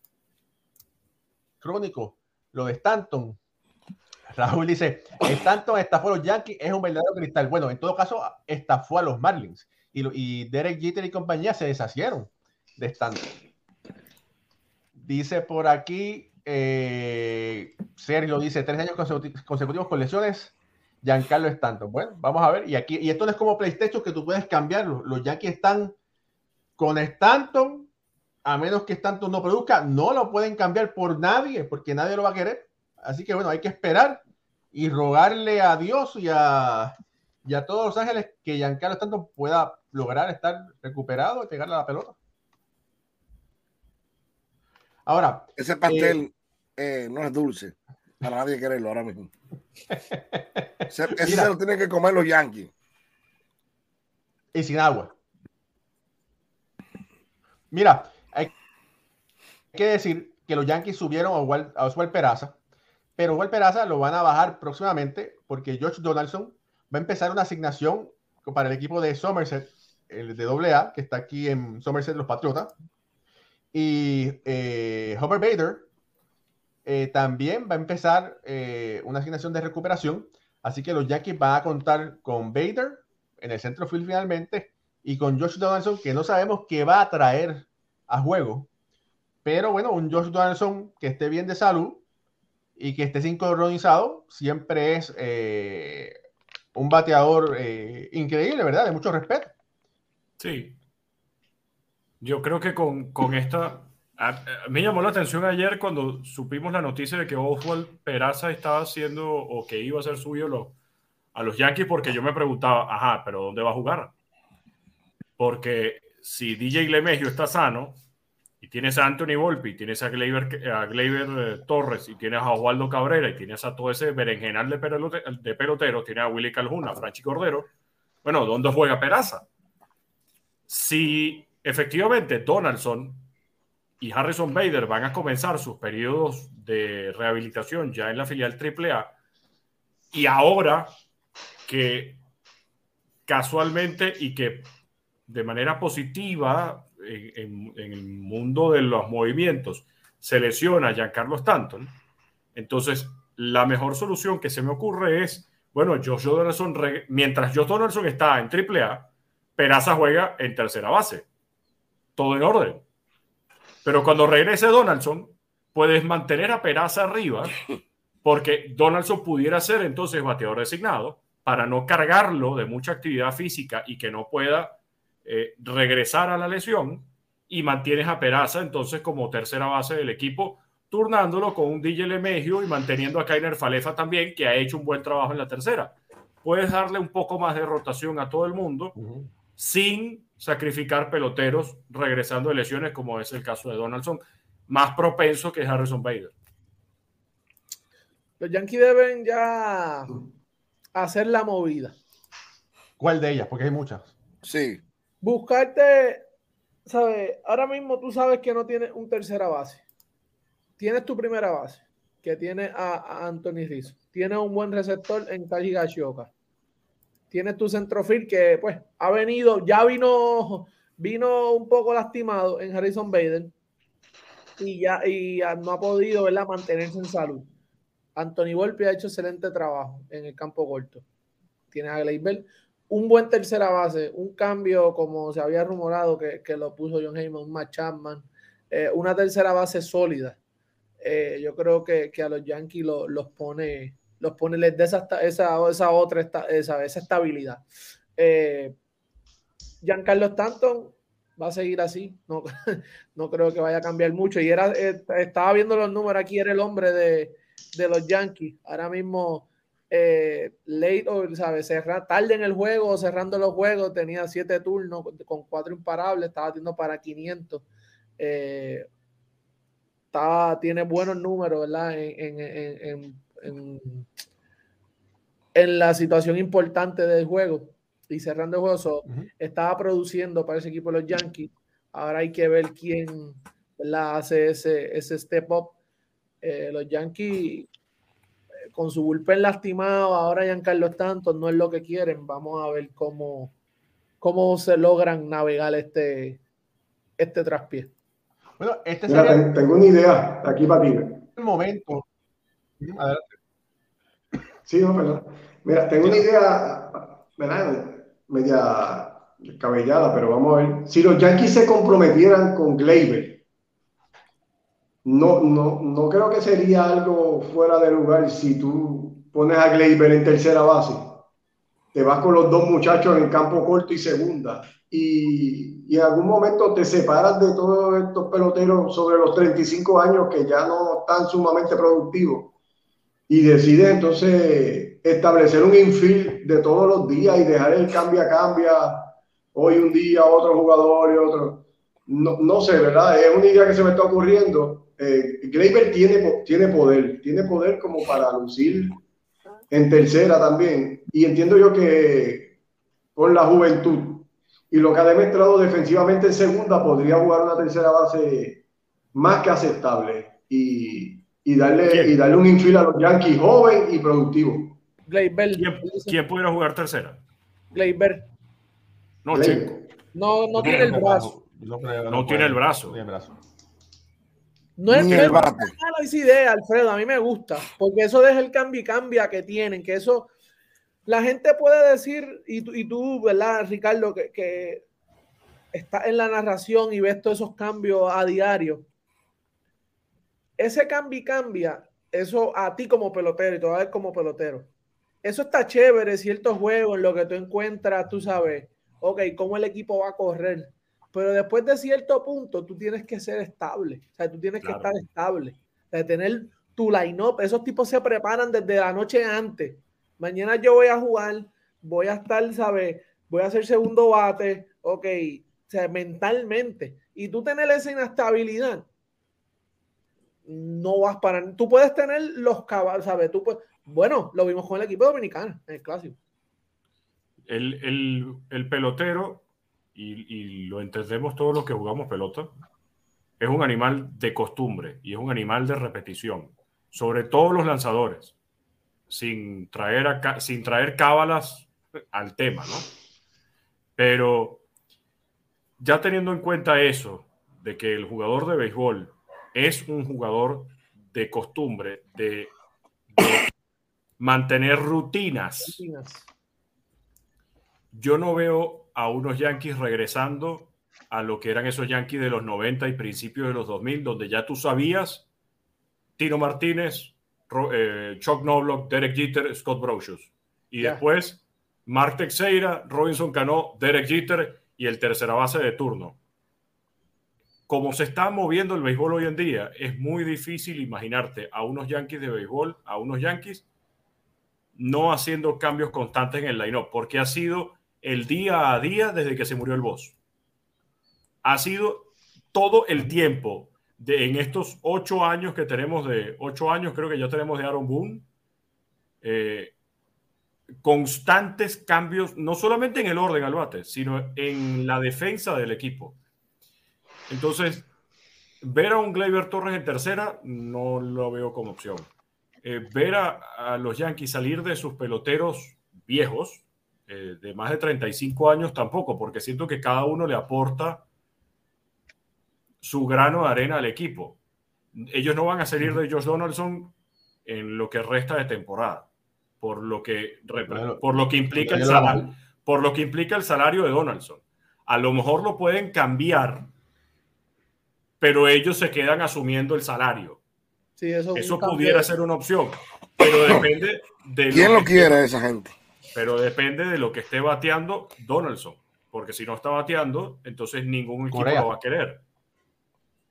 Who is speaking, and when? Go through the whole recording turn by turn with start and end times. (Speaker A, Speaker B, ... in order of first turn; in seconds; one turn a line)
Speaker A: 1.6-3.4
Speaker A: 4.3-13.3
Speaker A: 15.0-25.9
Speaker A: 26.8-27.9
Speaker A: 28.4-34.2
Speaker A: 34.7-42.2
Speaker A: 45.1-46.2
Speaker B: 45.6-49.3
Speaker A: 49.9-51.5
Speaker B: 50.9-52.7
Speaker A: 54.5-55.1
Speaker A: 57.7-58.5
Speaker A: 59.7-62.6
Speaker A: 63.2-72.7
Speaker A: 73.7-75.9
Speaker A: 76.9-88.7
Speaker A: 89.5-92.0
Speaker A: 92.8-96.2
Speaker A: 96.7-99.5
Speaker C: 100.4-100.8
Speaker C: 102.2-110.8
Speaker C: 111.3-114.1
Speaker C: 115.4-118.0
Speaker C: 118.6-127.7
Speaker C: 128.2-129.5
Speaker C: 130.7-133.3
Speaker C: 134.0-139.2
Speaker C: 140.1-141.0
Speaker C: 141.7-142.2
Speaker C: 143.3-144.7
Speaker C: 145.3-152.0
Speaker C: 152.6-161.3
Speaker C: 162.2-162.8
Speaker C: 163.8-167.6
Speaker C: 168.2-189.0
Speaker A: 189.0-189.3
Speaker C: 189.6-196.3
Speaker D: 198.4-200.2
Speaker D: 200.9-202.0
Speaker A: 203.0-204.1
Speaker B: 204.4-204.8
Speaker D: 205.2-206.2
Speaker D: 206.9-209.8
Speaker D: 210.8-216.3
Speaker D: 217.3-223.5
Speaker D: 224.6-227.5
Speaker D: 228.2-231.0
Speaker D: 231.7-240.4
Speaker D: 241.0-247.7
Speaker D: 248.2-248.8
Speaker D: 249.8-267.6
Speaker D: 268.2-268.9
Speaker D: 270.1-274.1
Speaker D: 275.6-285.8
Speaker D: 286.4-287.7
Speaker D: 288.7-293.5
Speaker D: 294.2-296.4
Speaker D: 297.2-297.9
Speaker A: 298.6-299.5
Speaker E: 299.1-301.2
Speaker A: 301.4-302.1
Speaker A: 302.8-303.4
Speaker E: 304.7-313.4
Speaker A: 306.0-306.3
Speaker E: 315.0-321.2
Speaker E: 321.9-332.6
Speaker E: 333.3-349.0
Speaker E: 349.7-352.6
Speaker E: 353.1-364.8
Speaker C: 361.9-362.2
Speaker D: 365.1-366.2
Speaker C: 365.5-367.2
Speaker D: 367.7-368.3
Speaker C: 369.2-369.8
Speaker E: 369.3-369.9
Speaker D: 370.1-371.3
Speaker A: 370.6-373.3
Speaker C: 372.1-373.0
Speaker D: 374.8-380.3
Speaker B: 374.9-375.8
Speaker D: 381.1-384.8
Speaker D: 385.7-388.9
Speaker D: 390.6-394.7
Speaker D: 395.2-418.9
Speaker C: 404.6-404.9
Speaker D: 420.5-426.2
Speaker C: 427.5-432.5
Speaker C: 433.4-438.4
Speaker C: 439.1-442.9
Speaker C: 444.0-444.6
Speaker C: 445.8-452.5
Speaker C: 453.1-453.5
Speaker C: 454.2-455.8
Speaker D: 455.6-456.3
Speaker C: 457.9-465.3
Speaker C: 466.2-476.2
Speaker C: 477.7-483.6
Speaker C: 484.8-490.2
Speaker C: 491.4-498.3
Speaker C: 499.2-499.7
Speaker C: 500.8-506.2
Speaker C: 507.3-507.9
Speaker C: 508.6-512.1
Speaker C: 512.6-521.0
Speaker C: 522.8-524.4
Speaker C: 524.9-529.1
Speaker C: 529.6-536.7
Speaker A: 530.7-532.3
Speaker C: 538.2-540.4
Speaker D: 541.0-542.1
Speaker C: 541.4-545.2
Speaker B: 544.5-545.8
Speaker C: 546.1-552.2
Speaker A: 551.3-551.7